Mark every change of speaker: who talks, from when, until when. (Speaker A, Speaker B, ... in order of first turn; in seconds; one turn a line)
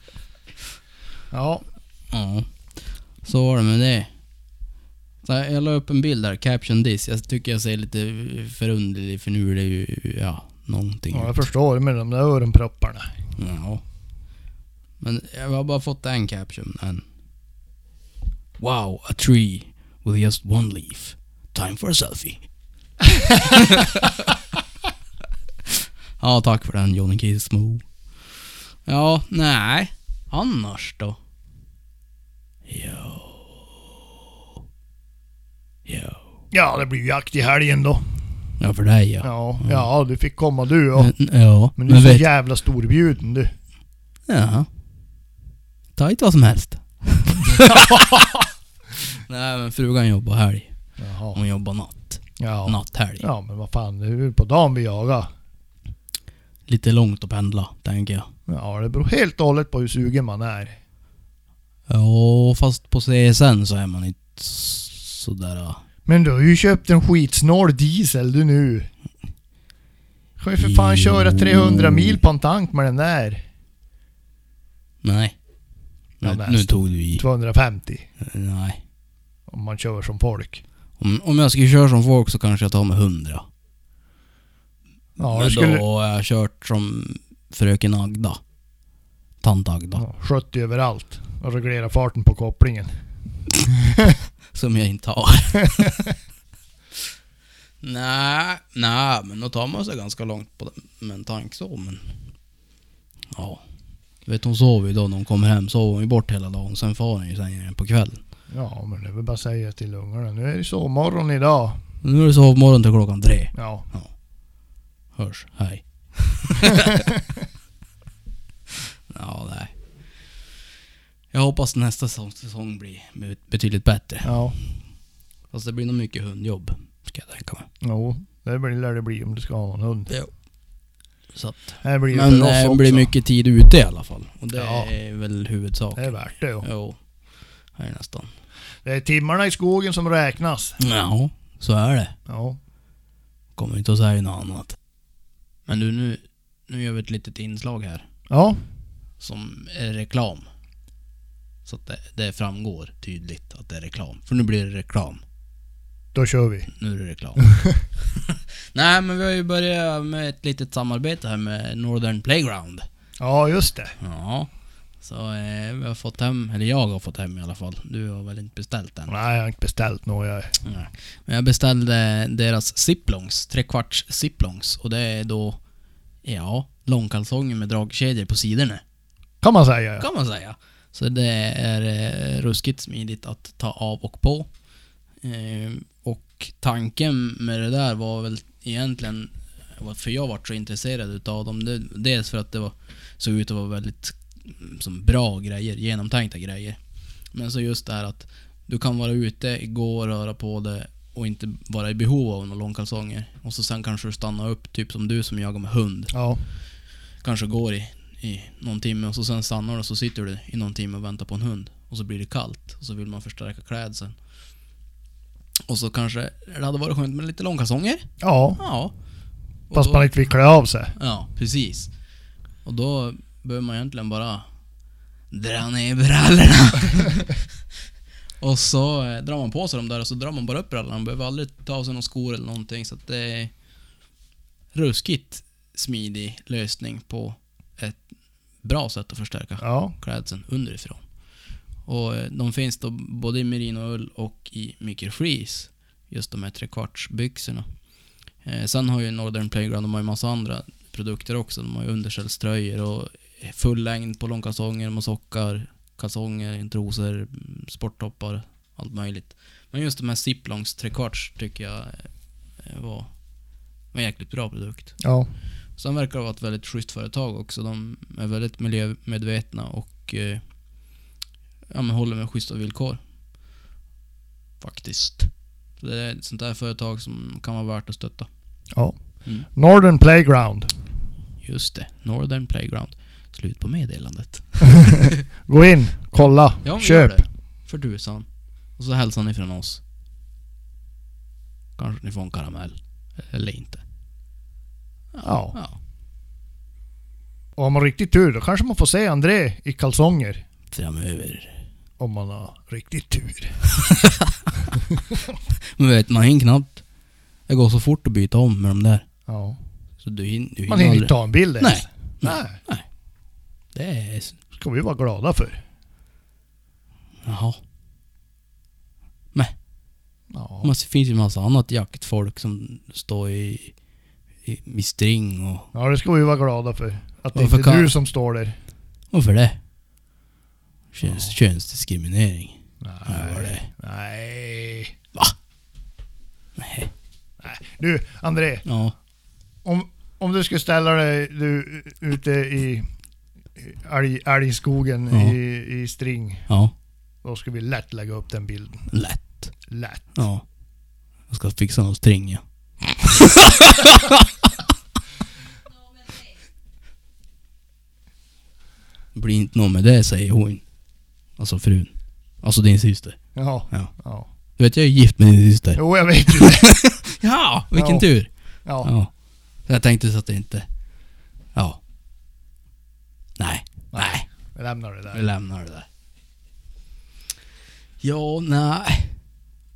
Speaker A: 1.3-1.6
Speaker B: 2.1-2.7
Speaker B: 3.2-4.1
Speaker B: 5.2-11.5
Speaker A: 11.1-13.1
Speaker B: 13.4-13.8
Speaker B: 15.0-17.1
Speaker B: 18.6-22.4
Speaker B: 23.4-24.3
Speaker B: 26.2-31.2
Speaker B: 32.7-33.7
Speaker B: 35.9-36.2
Speaker A: 36.5-38.0
Speaker B: 38.6-39.9
Speaker A: 39.2-41.1
Speaker B: 41.0-42.2
Speaker A: 41.8-43.5
Speaker B: 44.3-44.7
Speaker B: 46.0-48.2
Speaker A: 47.7-48.4
Speaker B: 49.1-50.7
Speaker A: 51.0-51.4
Speaker B: 51.3-53.2
Speaker A: 52.4-55.3
Speaker B: 56.7-58.3
Speaker A: 58.5-60.8
Speaker B: 61.9-65.8
Speaker A: 66.1-68.9
Speaker A: 70.4-73.4
Speaker B: 70.6-72.2
Speaker B: 75.0-75.4
Speaker B: 76.2-77.2
Speaker A: 76.2-78.1
Speaker B: 78.2-78.8
Speaker A: 79.5-80.6
Speaker B: 81.0-83.5
Speaker A: 85.2-85.8
Speaker B: 85.3-88.4
Speaker B: 89.4-90.0
Speaker A: 90.0-92.9
Speaker A: 93.7-94.2
Speaker B: 94.5-96.1
Speaker B: 97.8-102.1
Speaker B: 103.3-103.6
Speaker B: 104.2-108.2
Speaker A: 108.5-111.8
Speaker B: 112.0-114.1
Speaker A: 113.5-113.9
Speaker B: 115.2-117.1
Speaker B: 119.1-119.8
Speaker B: 121.3-124.5
Speaker A: 124.2-124.6
Speaker B: 125.5-127.7
Speaker A: 127.8-130.1
Speaker B: 131.3-137.0
Speaker A: 131.8-133.1
Speaker A: 134.5-134.9
Speaker A: 136.0-136.7
Speaker B: 137.8-138.3
Speaker A: 138.8-140.8
Speaker B: 140.8-142.1
Speaker A: 142.3-142.6
Speaker B: 143.6-144.8
Speaker B: 145.7-148.1
Speaker A: 148.3-148.6
Speaker B: 149.2-150.5
Speaker B: 151.7-155.2
Speaker A: 156.1-156.7
Speaker B: 156.8-157.4
Speaker A: 157.4-157.8
Speaker B: 158.0-162.9
Speaker A: 163.2-164.0
Speaker B: 164.0-164.5
Speaker B: 165.0-169.1
Speaker A: 169.1-170.6
Speaker B: 170.6-175.6
Speaker B: 176.2-178.8
Speaker A: 179.4-180.1
Speaker B: 180.0-184.5
Speaker B: 185.2-196.8
Speaker B: 197.3-206.1
Speaker A: 206.1-206.4
Speaker B: 207.2-214.2
Speaker B: 215.7-218.9
Speaker A: 218.2-218.6
Speaker B: 219.7-220.1
Speaker A: 219.7-220.9
Speaker B: 221.0-221.9
Speaker B: 222.7-224.5
Speaker B: 225.3-227.5
Speaker B: 228.4-233.5
Speaker B: 234.7-238.0
Speaker B: 238.6-241.0
Speaker A: 239.6-240.0
Speaker B: 241.9-247.7
Speaker B: 248.4-262.1
Speaker B: 262.6-263.2
Speaker B: 263.9-265.0
Speaker A: 265.0-265.3
Speaker B: 265.8-270.4
Speaker B: 271.7-273.0
Speaker B: 274.6-278.3
Speaker A: 278.7-280.7
Speaker B: 281.4-285.2
Speaker A: 284.7-287.2
Speaker B: 286.6-288.3
Speaker B: 288.8-289.8
Speaker B: 291.8-293.8
Speaker B: 295.1-295.8
Speaker A: 295.2-295.6
Speaker A: 297.6-300.4
Speaker B: 300.7-301.6
Speaker A: 302.0-303.6
Speaker B: 303.8-304.3
Speaker A: 304.7-305.2
Speaker B: 305.7-306.8
Speaker B: 307.5-309.1
Speaker A: 309.3-309.6
Speaker B: 310.0-312.9
Speaker A: 310.7-312.6
Speaker B: 313.8-314.4
Speaker A: 314.5-315.6
Speaker B: 317.2-317.6
Speaker A: 320.3-320.7
Speaker B: 320.6-323.7
Speaker B: 324.4-325.7
Speaker A: 325.7-328.6
Speaker B: 327.3-327.9
Speaker B: 329.1-329.6
Speaker B: 330.9-333.7
Speaker A: 331.1-331.3
Speaker A: 332.8-334.9
Speaker B: 336.6-336.9
Speaker A: 337.4-338.7
Speaker B: 338.7-338.9
Speaker A: 339.6-342.9
Speaker A: 343.6-346.5
Speaker A: 347.2-348.9
Speaker B: 348.9-349.5
Speaker A: 349.7-350.1
Speaker B: 350.1-350.4
Speaker B: 351.3-354.5
Speaker B: 359.1-360.6
Speaker B: 361.4-363.2
Speaker A: 363.4-364.3
Speaker B: 364.6-368.3
Speaker A: 365.8-366.7
Speaker A: 367.7-368.1
Speaker A: 368.6-368.9
Speaker B: 368.8-369.1
Speaker B: 369.7-370.7
Speaker B: 371.6-371.8
Speaker B: 373.4-374.3
Speaker A: 373.9-375.3
Speaker B: 375.1-375.9
Speaker B: 378.0-379.2